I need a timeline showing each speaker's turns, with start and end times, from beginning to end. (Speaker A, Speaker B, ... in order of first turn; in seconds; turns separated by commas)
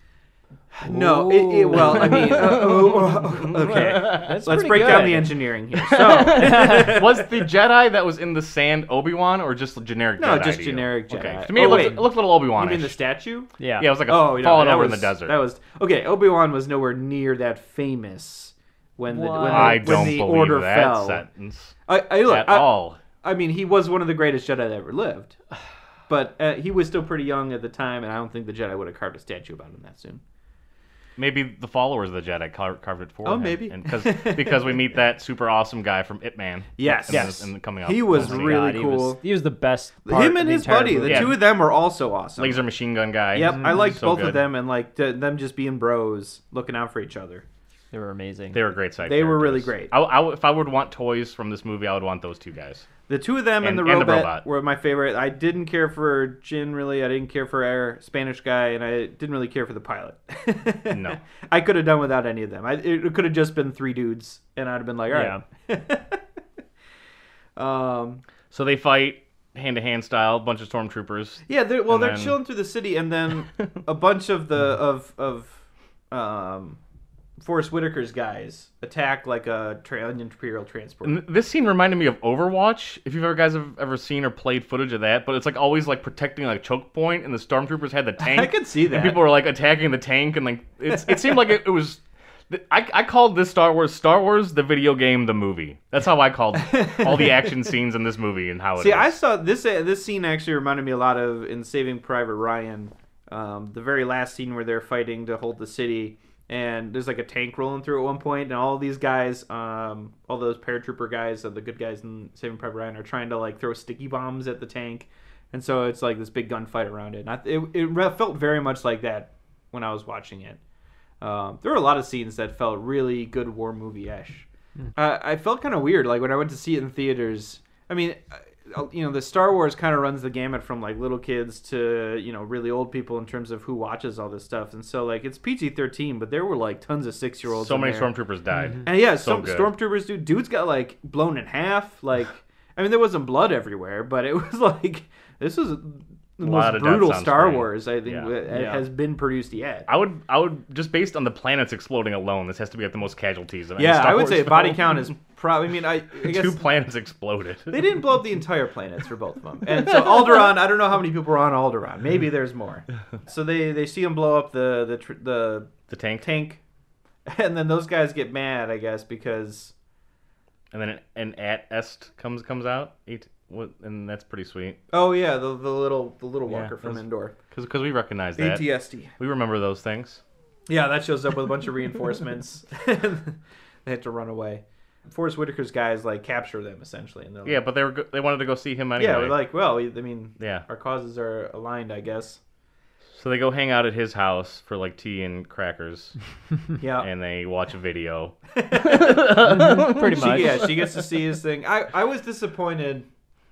Speaker A: 0.7-7.3, Speaker B: 0.8-3.0, Speaker C: 1.8-4.4, Speaker B: 3.7-5.4, Speaker C: 5.7-13.0, Speaker B: 6.0-6.9, Speaker A: 10.2-13.5, Speaker B: 13.6-13.9, Speaker C: 13.8-15.3, Speaker A: 14.1-21.2, Speaker B: 19.1-20.2, Speaker C: 19.4-23.0, Speaker A: 21.9-25.4, Speaker A: 26.1-30.2, Speaker C: 31.2-38.7, Speaker A: 33.2-34.9, Speaker A: 36.8-39.2, Speaker B: 37.1-37.5, Speaker B: 38.1-41.4, Speaker A: 40.0-42.6, Speaker C: 41.0-41.4, Speaker C: 42.4-44.4, Speaker A: 43.3-47.4, Speaker B: 43.5-44.0, Speaker B: 47.9-48.6, Speaker C: 48.5-52.9, Speaker A: 49.0-49.9, Speaker A: 53.1-66.2, Speaker C: 53.6-54.4, Speaker C: 60.9-61.2, Speaker B: 65.1-65.4, Speaker A: 67.5-68.2, Speaker C: 68.5-72.4, Speaker A: 71.5-76.8, Speaker A: 77.4-81.2, Speaker C: 81.0-99.1, Speaker A: 88.2-89.2, Speaker A: 96.6-97.6, Speaker A: 98.8-120.6, Speaker A: 121.2-138.1, Speaker C: 137.5-139.7, Speaker A: 138.8-149.9, Speaker C: 146.4-148.3, Speaker B: 148.5-148.8, Speaker C: 149.9-155.1, Speaker A: 153.8-156.6, Speaker C: 156.2-157.8, Speaker A: 157.7-166.6, Speaker C: 165.9-166.3, Speaker A: 167.2-169.7, Speaker C: 170.7-174.8, Speaker A: 174.9-177.3, Speaker C: 176.5-178.6, Speaker A: 178.4-179.1, Speaker C: 179.2-180.2, Speaker A: 180.7-187.6, Speaker C: 187.4-189.4, Speaker A: 189.0-192.4, Speaker C: 190.4-190.6, Speaker C: 193.1-196.2, Speaker A: 196.8-197.1, Speaker C: 197.0-201.1, Speaker A: 198.5-203.1, Speaker B: 199.3-200.7